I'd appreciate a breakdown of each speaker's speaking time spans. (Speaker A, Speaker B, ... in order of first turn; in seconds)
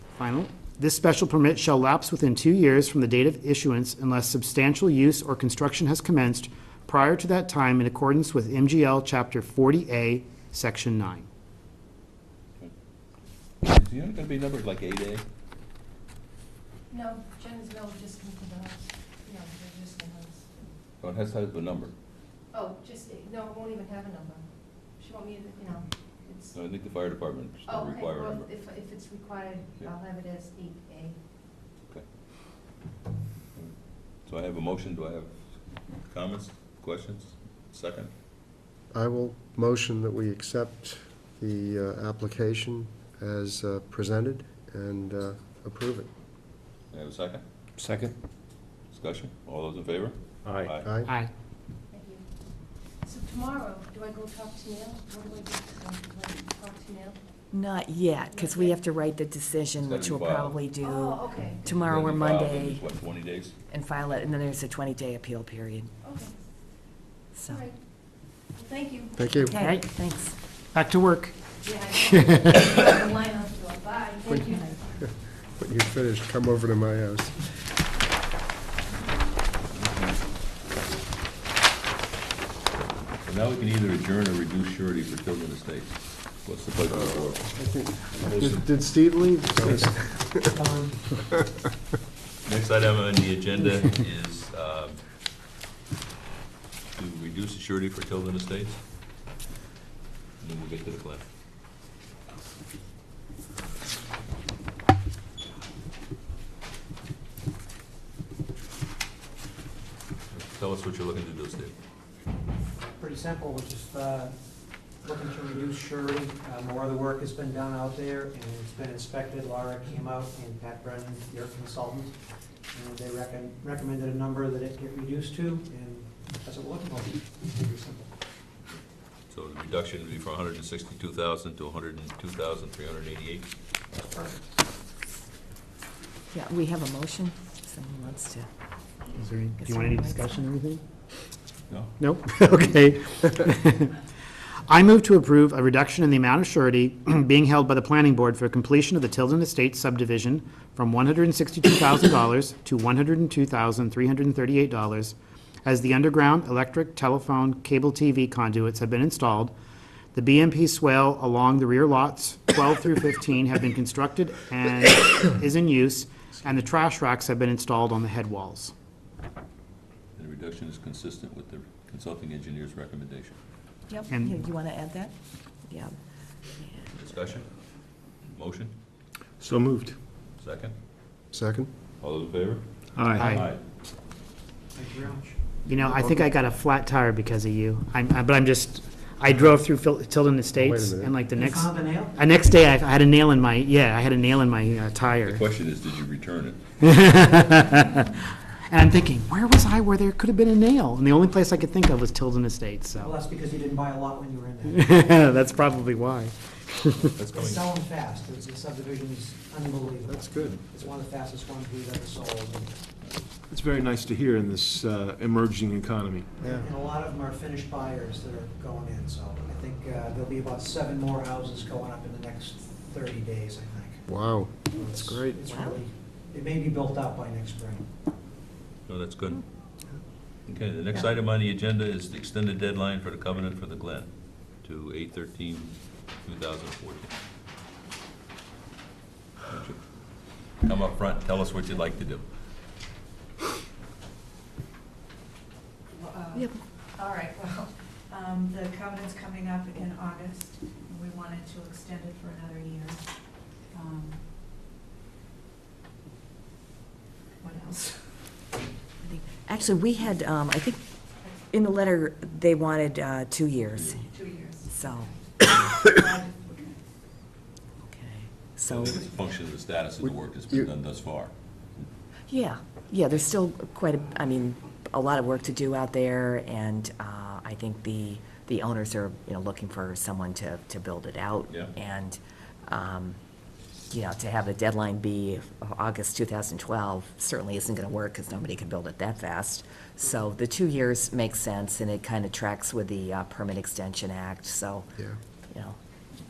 Speaker A: 0.1-11.3, 51.0-51.3, 69.6-69.9, 70.7-71.3, 72.0-72.5, 139.1-140.8, 142.0-143.9, 144.7-159.5, 160.1-168.7, 174.1-174.4, 183.2-183.4, 185.7-195.4, 196.8-203.1, 204.7-207.1
Speaker B: 13.6-15.2, 21.0-21.9, 26.5-28.5, 33.5-35.5, 36.0-38.1, 46.9-47.4, 48.9-50.9, 59.8-60.6, 61.7-63.5, 79.7-80.2, 82.8-87.6, 88.3-88.6, 92.4-95.0, 96.9-98.8, 100.4-101.2, 110.3-111.7, 129.3-133.5, 170.2-173.4, 177.0-177.5, 178.3-178.7, 180.4-180.7, 182.0-182.6, 183.2-183.6, 195.2-196.6, 207.1-207.8, 228.9-229.4, 230.5-234.1, 234.6-237.1, 239.5-239.8, 240.6-242.2, 268.6-271.8
Speaker C: 16.9-20.5, 22.5-24.4, 25.0-26.5, 27.7-31.2, 51.9-52.2, 53.0-57.2, 58.3-58.8, 60.8-61.6, 66.0-66.3, 67.4-67.7, 68.5-69.1, 71.6-74.8
Speaker D: 38.9-46.1, 50.8-51.1, 69.1-69.6, 74.3-77.4, 86.9-90.6, 181.3-181.7, 190.5-191.2, 224.1-224.7, 270.0-270.7
Speaker E: 47.8-48.1, 50.4-50.7, 179.4-179.9, 183.0-183.3, 213.5-216.6, 225.0-225.3
Speaker F: 57.5-62.8, 63.7-65.9, 69.3-70.3, 136.3-138.5, 139.6-140.3, 173.9-175.1, 175.7-175.9, 176.5-177.1, 224.9-225.8, 259.0-260.8, 261.4-264.0, 264.7-265.1, 267.8-269.0, 272.3-283.2, 283.9-294.9, 295.5-295.8
Speaker G: 90.5-91.0, 112.9-114.3, 115.0-122.2, 122.7-128.1, 184.7-185.9, 191.3-192.1, 203.0-204.9, 207.3-212.8, 216.4-224.0, 224.7-227.9
Speaker H: 245.9-253.0, 253.7-254.2, 257.4-258.1, 264.0-266.7